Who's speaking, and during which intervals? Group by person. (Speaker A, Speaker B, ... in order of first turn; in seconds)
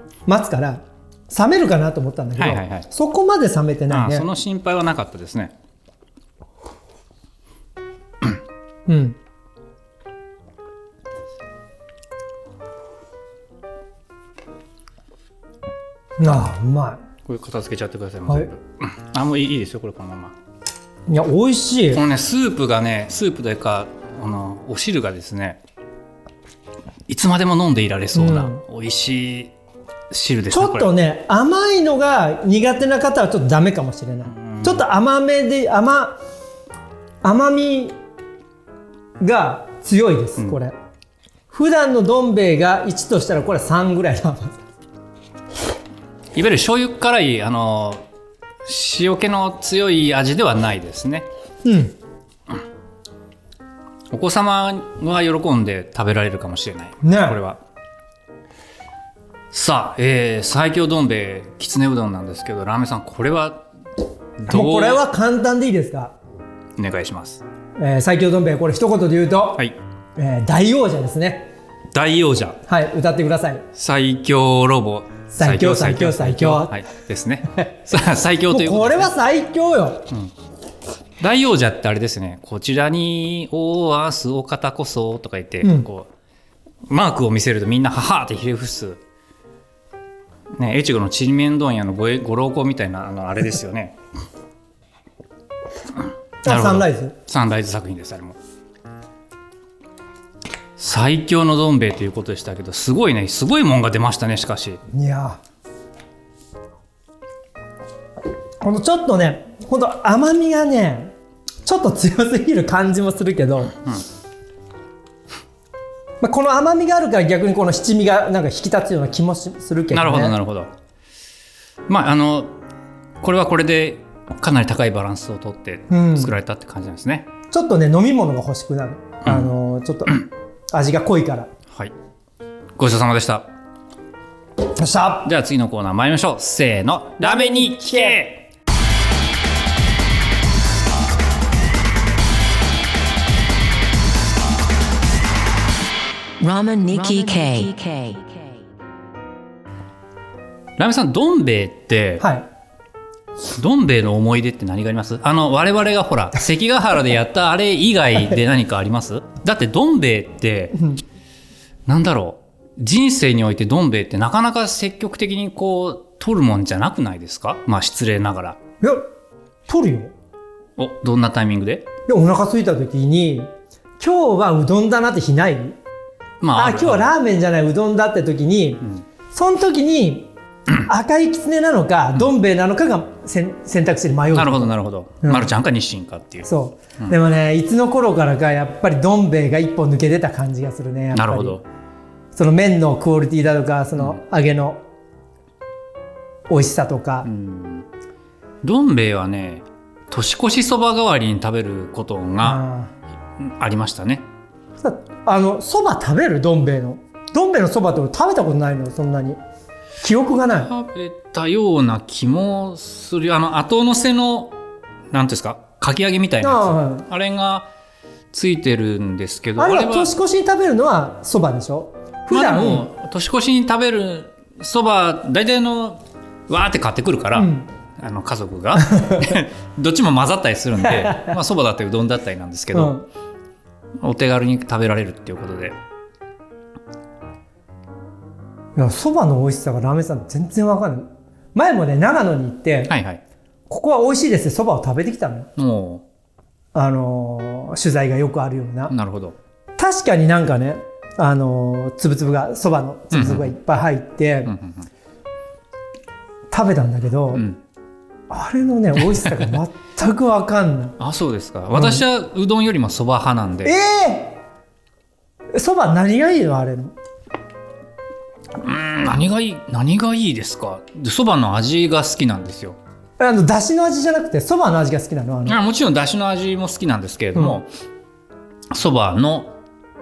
Speaker A: 0.3-4.3, 8.9-9.2, 16.2-17.0, 21.1-22.0, 28.1-28.6, 30.5-36.2, 37.2-38.0, 39.2-40.7, 41.5-44.5, 51.6-52.0, 57.0-57.4, 64.5-66.1, 67.8-69.7, 70.2-71.5, 72.7-73.7, 75.4-76.7, 78.5-80.1, 85.6-85.9, 96.4-97.1, 104.9-105.4, 108.6-111.1, 111.7-113.8, 116.2-120.3, 125.9-126.3, 127.5-131.5, 134.8-135.3, 137.2-138.2, 152.2-152.5, 168.8-169.1, 169.7-170.1, 172.1-175.8, 176.5-185.5, 186.5-191.6, 192.3-194.8, 196.5-197.3, 202.4-202.9, 204.8-209.4, 210.0-210.7, 216.4-217.1, 219.6-222.9, 227.3-227.7, 228.9-229.3, 230.8-231.4, 232.7-233.1, 238.8-242.9, 243.7-245.5, 246.7-248.9, 249.8-254.5, 256.5-257.4, 258.3-261.0, 261.8-262.0, 263.6-264.4, 265.5-266.9, 273.2-275.6
Speaker B: 2.4-2.9, 3.9-5.5, 17.2-20.4, 21.9-25.6, 27.1-29.5, 30.1-30.9, 34.3-34.9, 46.3-48.0, 48.6-51.3, 54.1-57.6, 59.5-63.7, 64.4-65.0, 66.8-67.4, 71.9-72.6, 73.8-79.1, 81.2-86.1, 86.9-89.0, 90.6-94.0, 96.5-98.4, 100.8-104.8, 113.8-114.0, 119.9-120.7, 121.9-122.6, 123.2-127.3, 129.2-129.5, 132.8-133.5, 135.2-138.5, 150.8-152.2, 153.6-160.9, 161.9-168.6, 170.8-171.9, 176.4-177.1, 184.3-187.2, 191.1-191.6, 197.2-197.9, 198.6-202.6, 203.4-204.3, 210.6-214.6, 215.1-217.7, 218.3-220.1, 222.3-233.0, 234.0-235.8, 242.9-243.2, 245.6-246.1, 248.9-249.4, 253.1-253.6, 254.4-254.9, 257.3-257.6, 259.1-259.6, 261.0-263.8, 268.6-272.8, 275.5-277.7, 278.7-279.6
Speaker C: 146.4-148.6